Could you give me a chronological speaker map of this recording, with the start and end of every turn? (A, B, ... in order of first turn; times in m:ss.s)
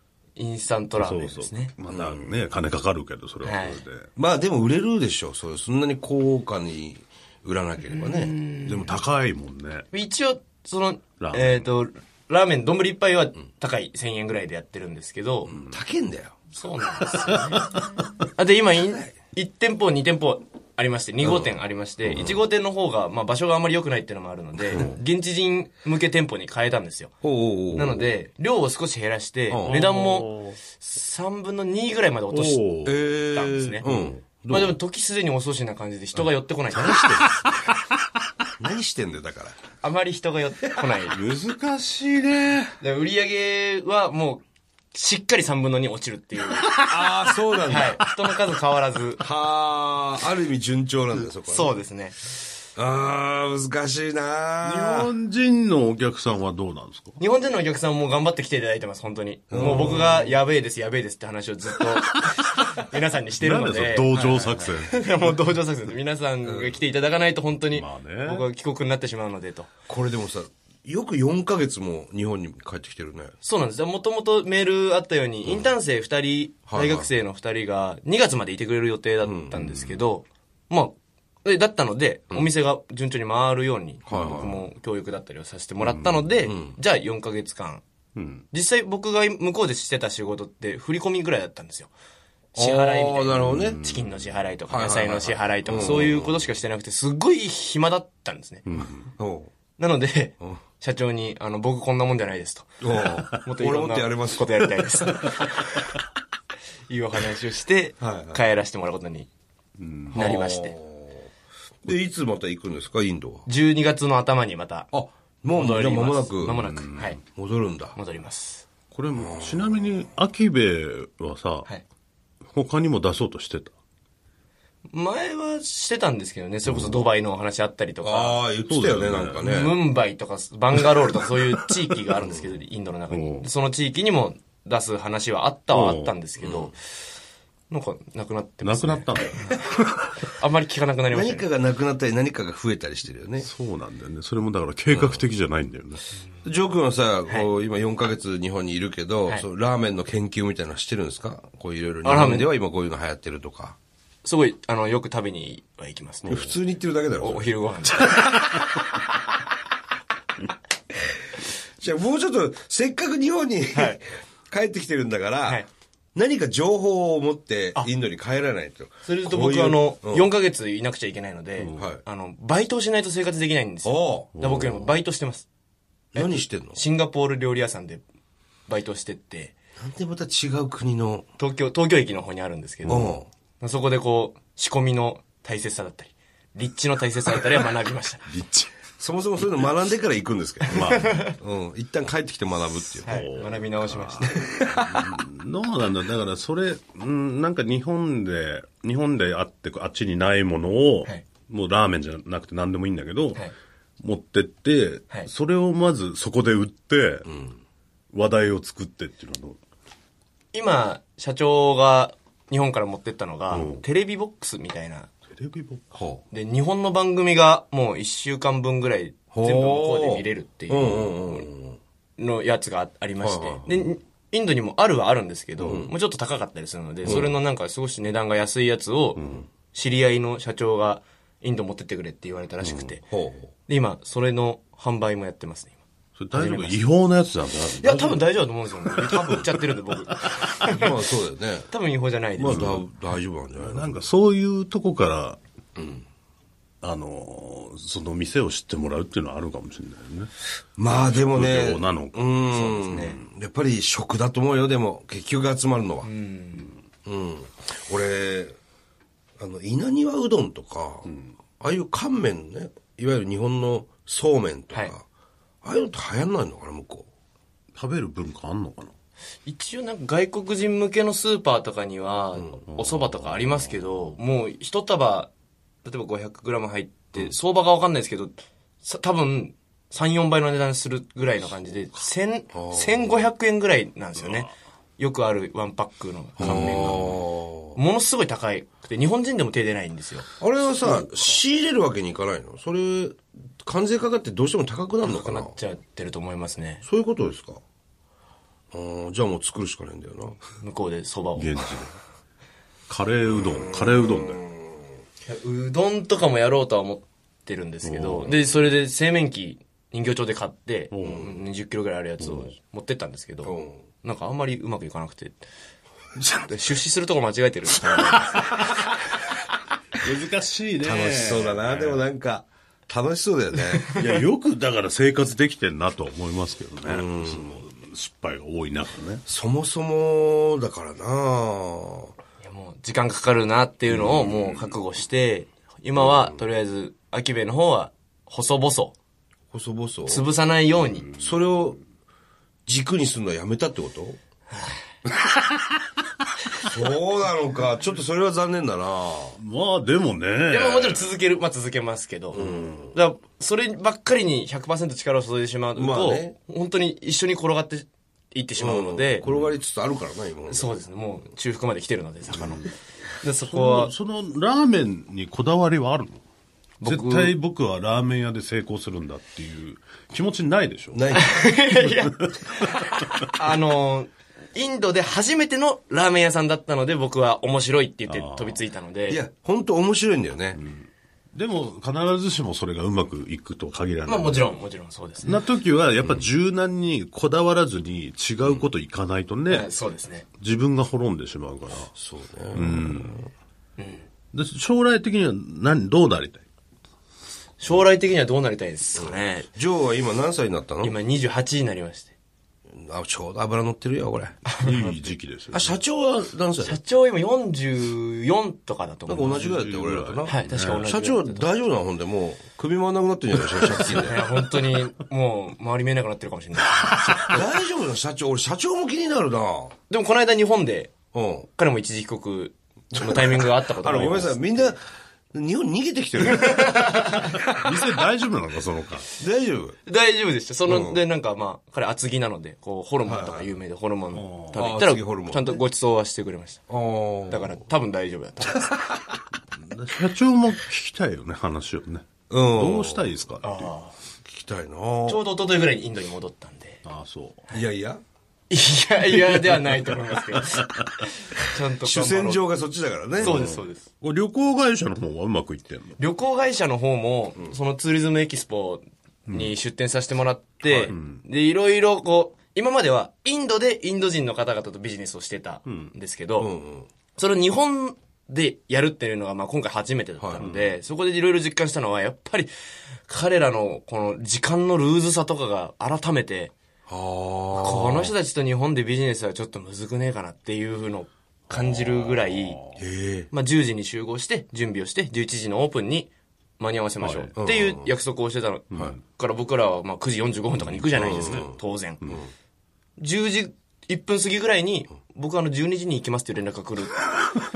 0:00.4-0:01.7 A
0:01.0-0:04.1 B
0:01.9-0:02.3 C
0:03.4-0:03.8 A
0:04.2-0:08.3 C
0:07.9-0:09.0 A
0:08.6-0:09.9 B
0:09.9-0:15.5 A
0:11.2-0:11.6 B
0:15.5-0:16.4 C
0:16.5-0:17.8 A
0:17.3-0:18.1 B
0:18.3-0:27.1 A
0:27.2-0:28.1 C
0:27.7-0:32.6 A
0:29.5-0:29.8 C
0:29.6-0:30.6 B
0:32.3-0:33.0 B
0:32.8-0:34.8 C
0:33.3-0:33.9 A
0:33.8-0:34.1 B
0:34.5-0:37.2 A
0:36.7-0:37.5 C
0:36.8-0:37.7 B
0:38.6-0:39.6 C
0:39.8-0:41.2 A
0:41.1-0:42.8 B
0:42.8-0:46.8 A
0:46.6-0:47.1 B
0:46.7-0:48.0 C
0:47.6-0:49.2 A
0:49.2-0:51.7 C
0:51.5-0:52.2 A
0:52.8-0:55.1 C
0:54.6-0:57.2 B
0:57.2-1:09.7 A
0:59.5-1:00.4 C
0:59.6-0:59.9 B
1:03.4-1:05.4 B
1:04.1-1:04.6 C
1:06.4-1:06.8 C
1:07.7-1:08.4 B
1:09.9-1:13.3 C
1:13.4-1:27.8 A
1:16.7-1:17.1 C
1:19.2-1:19.8 C
1:24.1-1:24.6 C
1:25.9-1:26.3 B
1:26.5-1:26.8 C
1:28.1-1:28.4 B
1:28.5-1:31.9 A
1:32.5-1:38.6 A
1:32.6-1:33.8 C
1:33.3-1:34.3 B
1:34.7-1:36.3 C
1:35.7-1:36.2 B
1:38.6-1:39.0 B
1:39.2-1:39.5 C
1:39.8-1:45.9 A
1:42.8-1:45.1 C
1:46.9-1:49.3 A
1:48.0-1:48.4 C
1:49.8-1:50.2 B
1:50.1-1:51.3 C
1:50.1-1:50.7 A
1:51.8-1:53.4 C
1:53.4-1:54.9 A
1:54.9-1:56.7 C
1:55.5-1:57.2 A
1:56.4-1:57.2 B
1:57.2-1:58.0 C
1:57.9-1:58.7 A
1:58.9-2:01.7 B
1:59.2-1:59.7 C
2:02.5-2:03.7 B
2:04.9-2:08.4 A
2:06.7-2:07.0 B
2:08.0-2:09.8 C
2:08.7-2:09.5 B
2:09.4-2:16.8 A
2:12.2-2:12.5 C
2:13.1-2:13.5 B
2:15.7-2:16.1 B
2:16.4-2:16.7 C
2:17.7-2:19.7 A
2:18.6-2:20.1 B
2:20.2-2:21.4 A
2:21.1-2:23.5 C
2:23.4-2:26.0 B
2:24.9-2:25.2 C
2:26.4-2:33.8 C
2:32.0-2:32.5 A
2:34.2-2:36.5 A
2:36.2-2:36.5 B
2:36.2-2:37.5 C
2:37.2-2:38.4 A
2:38.1-2:38.6 B
2:41.8-2:45.6 C
2:46.1-2:50.3 C
2:49.0-2:55.5 A
2:51.6-2:51.9 B
2:51.7-2:52.0 C
2:53.8-2:54.4 C
2:54.4-2:54.9 B
2:56.1-2:56.8 C
2:56.1-2:58.0 A
2:58.7-2:59.5 A
2:59.8-3:01.2 C
3:01.4-3:08.3 A
3:02.8-3:03.3 C
3:08.3-3:08.7 B
3:09.0-3:13.2 C
3:10.7-3:11.2 B
3:10.7-3:11.4 A
3:13.0-3:14.4 A
3:13.0-3:23.4 B
3:14.3-3:15.2 C
3:24.0-3:27.3 B
3:27.2-3:27.6 C
3:28.1-3:29.6 B
3:30.5-3:35.1 A
3:33.5-3:33.8 B
3:35.3-3:35.8 B
3:35.9-3:36.2 C
3:36.3-3:41.5 A
3:39.3-3:41.8 C
3:42.2-3:53.0 A
3:43.2-3:43.6 C
3:45.6-3:45.9 C
3:49.2-3:49.4 B
3:52.6-3:52.9 B
3:53.1-3:53.5 C
3:53.7-3:55.8 A
3:56.2-3:58.3 B
3:56.3-3:56.8 A
3:57.8-4:00.9 A
3:58.9-3:59.4 B
3:59.0-3:59.5 C
4:00.1-4:00.5 B
4:00.6-4:01.7 C
4:01.7-4:02.8 A
4:02.4-4:04.0 C
4:02.4-4:02.8 B
4:03.6-4:05.4 B
4:05.8-4:06.0 C
4:06.8-4:10.3 B
4:10.8-4:16.1 C
4:10.9-4:12.3 B
4:12.5-4:13.2 A
4:12.9-4:13.2 B
4:16.0-4:16.7 A
4:17.0-4:18.6 C
4:19.4-4:25.0 C
4:25.6-4:27.1 C
4:27.7-4:28.9 B
4:29.4-4:35.3 A
4:32.7-4:33.6 B
4:35.8-4:47.2 A
4:42.5-4:43.1 C
4:44.2-4:44.5 B
4:46.4-4:47.8 C
4:46.4-4:47.1 B
4:47.7-4:50.3 A
4:50.4-4:55.5 C
4:55.0-4:56.8 A
4:56.8-4:57.6 C
4:58.7-5:00.4 C
5:00.6-5:01.6 A
5:01.3-5:01.9 B
5:02.9-5:04.4 B
5:03.4-5:04.8 C
5:05.2-5:15.4 A
5:07.8-5:08.4 B
5:10.9-5:11.3 B
5:12.2-5:12.5 B
5:13.4-5:13.8 C
5:16.2-5:16.5 B
5:16.4-5:18.8 A
5:18.1-5:18.8 B
5:20.0-5:22.0 B
5:20.8-5:24.0 C
5:23.9-5:29.2 B
5:26.8-5:27.6 C
5:29.2-5:32.1 C
5:32.4-5:38.9 A
5:39.5-5:40.3 C
5:40.1-5:41.1 A
5:41.1-5:41.8 C
5:42.6-5:44.2 C
5:46.6-5:49.4 C
5:49.4-5:51.1 B
5:50.5-5:59.2 A
5:52.3-5:52.9 C
5:52.4-5:52.7 B
5:55.8-5:56.3 C
5:58.6-6:00.7 C
5:59.2-5:59.5 B
6:00.5-6:03.9 A
6:03.4-6:06.2 B
6:06.8-6:07.3 A
6:06.8-6:11.1 B
6:10.9-6:11.5 C
6:11.1-6:19.2 A
6:11.7-6:13.3 B
6:18.1-6:18.6 B
6:19.1-6:20.6 C
6:20.5-6:24.5 B
6:24.0-6:25.4 A
6:25.2-6:29.7 B
6:29.5-6:30.2 A
6:30.4-6:31.9 B
6:31.9-6:33.2 C
6:32.5-6:33.2 B
6:33.8-6:34.0 A
6:34.3-6:36.4 B
6:37.6-6:39.5 A
6:39.0-6:41.0 C
6:40.8-6:42.1 A
6:42.7-6:44.4 C
6:44.4-6:45.0 A
6:44.6-6:45.8 B
6:45.5-6:46.8 C
6:46.6-6:49.5 A
6:49.1-6:54.2 C
6:49.2-6:50.9 B
6:50.2-6:51.5 A
6:53.7-6:57.4 A
6:53.8-6:54.1 B
6:56.8-6:57.4 B
6:57.2-6:59.7 C
6:59.9-7:00.9 A
7:01.1-7:01.5 C
7:01.6-7:04.7 A
7:02.9-7:04.8 C
7:04.0-7:04.2 B
7:05.3-7:07.3 C
7:06.2-7:07.4 A
7:07.2-7:09.1 B
7:09.2-7:09.8 C
7:09.8-7:16.6 A
7:10.6-7:11.0 C
7:13.0-7:13.5 C
7:14.1-7:14.6 B
7:14.5-7:15.6 C
7:16.7-7:17.5 C
7:17.3-7:18.9 A
7:19.5-7:23.7 B
7:22.3-7:23.1 C
7:23.4-7:23.9 A
7:24.3-7:25.2 C
7:25.0-7:26.8 A
7:26.8-7:27.4 B
7:27.5-7:28.0 C
7:28.5-7:32.4 A
7:29.1-7:31.1 B
7:31.8-7:33.5 C
7:33.2-7:36.0 B
7:33.2-7:33.9 A
7:36.0-7:46.5 A
7:40.6-7:41.2 B
7:45.7-7:45.9 B
7:46.4-7:46.9 C
7:47.2-7:52.5 A
7:50.4-7:50.8 B
7:53.1-7:56.5 A
7:56.9-7:58.1 C
7:57.5-8:02.6 A
8:01.5-8:02.8 B
8:02.8-8:03.3 C
8:03.3-8:12.1 A
8:07.0-8:07.4 B
8:07.4-8:07.9 C
8:08.7-8:09.0 B
8:10.7-8:11.4 B
8:11.0-8:11.6 C
8:13.0-8:17.1 A